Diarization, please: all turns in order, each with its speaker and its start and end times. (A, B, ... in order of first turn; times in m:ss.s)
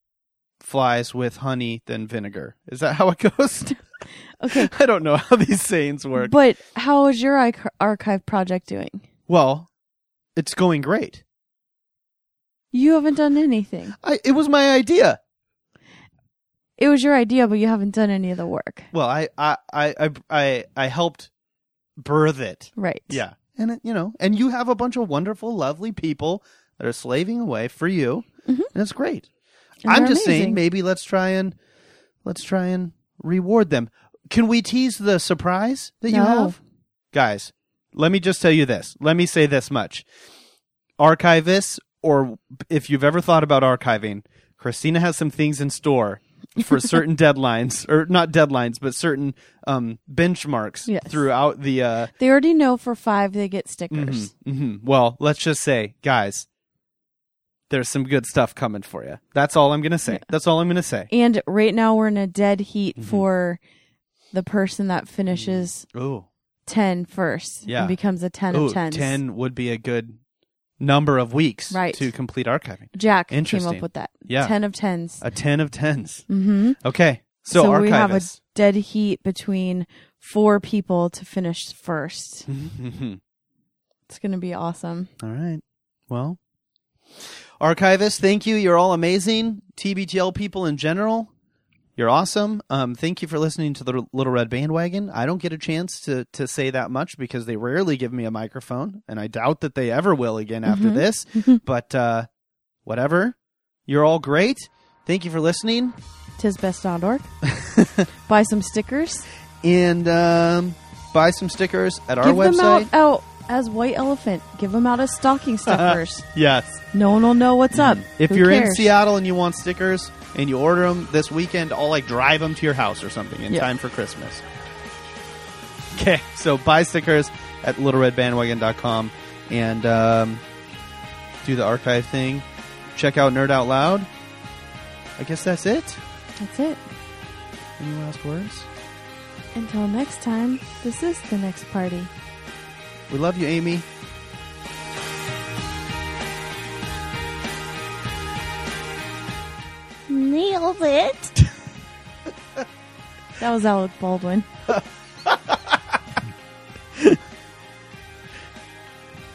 0:00.6-0:03.8 A
0:04.4-0:04.7 B
0:04.5-0:06.3 A
0:06.2-0:09.0 B
0:09.3-0:09.7 A
0:10.4-0:11.2 A
0:12.7-0:14.0 B
0:14.0-0:15.2 A
0:16.8-0:18.9 B
0:18.9-0:21.3 A
0:22.0-0:29.3 A
0:22.8-0:23.2 B
0:29.8-0:30.6 B
0:29.9-0:31.5 A
0:32.2-0:36.6 A
0:36.1-0:36.6 B
0:37.1-0:40.0 A
0:41.0-0:52.1 A
0:50.8-0:51.3 B
0:52.2-0:54.3 B
0:53.9-0:56.5 A
0:57.7-1:01.1 A
1:01.1-1:03.6 B
1:03.0-1:03.2 A
1:04.3-1:05.8 B
1:05.3-1:06.3 A
1:06.6-1:09.2 B
1:07.7-1:08.0 A
1:08.5-1:10.2 A
1:10.8-1:14.6 A
1:11.7-1:12.1 B
1:12.9-1:15.2 B
1:15.2-1:16.3 A
1:16.3-1:16.8 B
1:16.8-1:18.4 A
1:17.5-1:22.5 B
1:22.5-1:23.2 A
1:24.1-1:25.1 B
1:25.2-1:26.4 A
1:27.6-1:31.3 A
1:32.0-1:42.2 A
1:40.6-1:41.6 B
1:42.8-1:43.4 A
1:43.9-1:46.0 A
1:46.4-1:47.3 B
1:47.6-1:48.0 A
1:48.3-1:49.2 B
1:49.6-1:52.9 A
1:52.2-1:56.2 B
1:55.7-1:56.8 A
1:56.9-1:58.9 B
1:57.7-2:04.4 A
2:05.9-2:10.4 A
2:11.4-2:14.1 A
2:15.2-2:16.0 A
2:16.4-2:16.8 B
2:17.8-2:18.7 A
2:19.5-2:22.1 B
2:23.1-2:23.8 A
2:30.1-2:31.4 B
2:33.4-2:34.5 B
2:35.2-2:35.8 A